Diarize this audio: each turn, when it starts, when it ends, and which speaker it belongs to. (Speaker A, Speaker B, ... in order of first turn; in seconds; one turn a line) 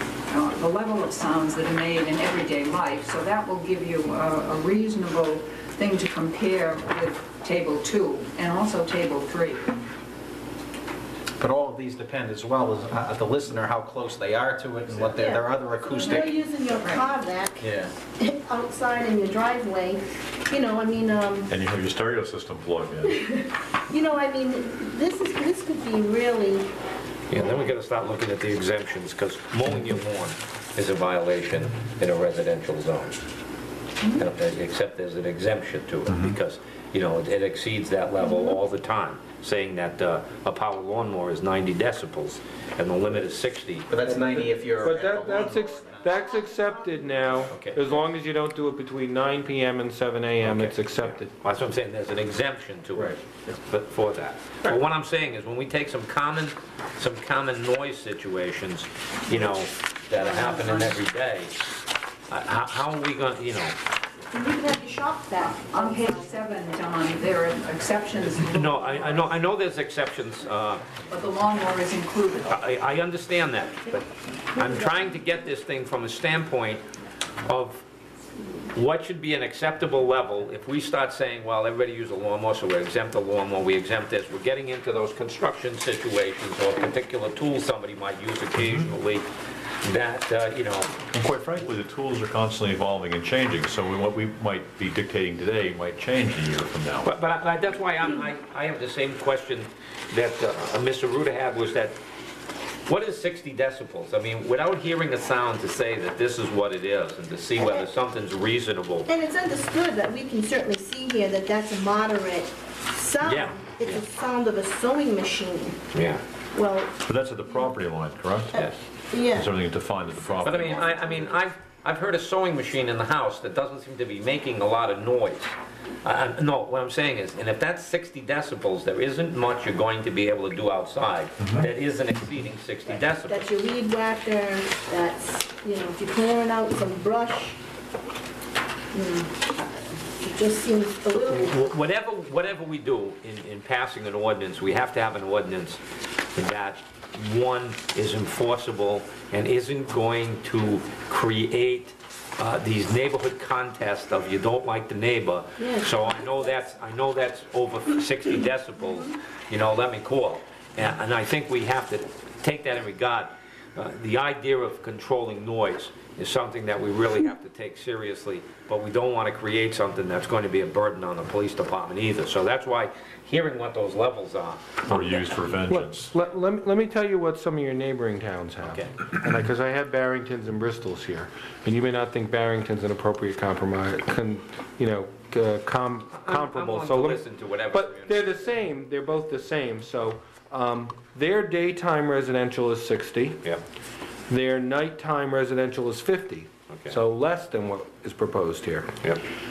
Speaker A: 0.3-9.7
Speaker B: 11.4-16.4
Speaker C: 15.1-21.5
Speaker A: 16.7-17.1
Speaker B: 17.6-17.9
Speaker D: 21.5-23.2
Speaker C: 23.1-26.7
Speaker E: 27.3-33.2
Speaker C: 27.4-27.7
Speaker E: 34.1-43.9
Speaker D: 36.1-36.3
Speaker B: 43.9-46.2
Speaker F: 44.0-51.3
Speaker C: 46.0-47.5
Speaker E: 47.4-47.8
Speaker E: 50.4-61.5
Speaker F: 52.9-53.6
Speaker A: 60.1-61.0
Speaker E: 62.3-63.8
Speaker C: 64.3-66.6
Speaker A: 65.6-69.3
Speaker E: 68.5-71.0
Speaker A: 71.1-72.7
Speaker E: 72.5-76.8
Speaker C: 74.6-75.0
Speaker E: 77.4-77.8
Speaker E: 78.7-89.3
Speaker D: 88.6-88.9
Speaker E: 89.8-90.9
Speaker D: 91.1-97.1
Speaker E: 97.0-102.0
Speaker E: 102.8-109.1
Speaker C: 107.6-107.9
Speaker C: 109.0-115.8
Speaker E: 113.2-114.0
Speaker E: 115.9-116.2
Speaker C: 116.5-116.9
Speaker D: 117.0-118.7
Speaker C: 118.5-119.5
Speaker D: 119.3-120.9
Speaker E: 120.4-133.5
Speaker C: 120.5-121.4
Speaker C: 133.2-137.6
Speaker C: 138.9-141.7
Speaker E: 141.1-145.8
Speaker E: 146.3-175.0
Speaker C: 155.6-156.5
Speaker C: 158.8-159.1
Speaker D: 174.9-176.1
Speaker F: 175.7-193.4
Speaker E: 178.6-178.9
Speaker E: 186.2-188.4
Speaker F: 194.3-198.9
Speaker E: 196.7-197.0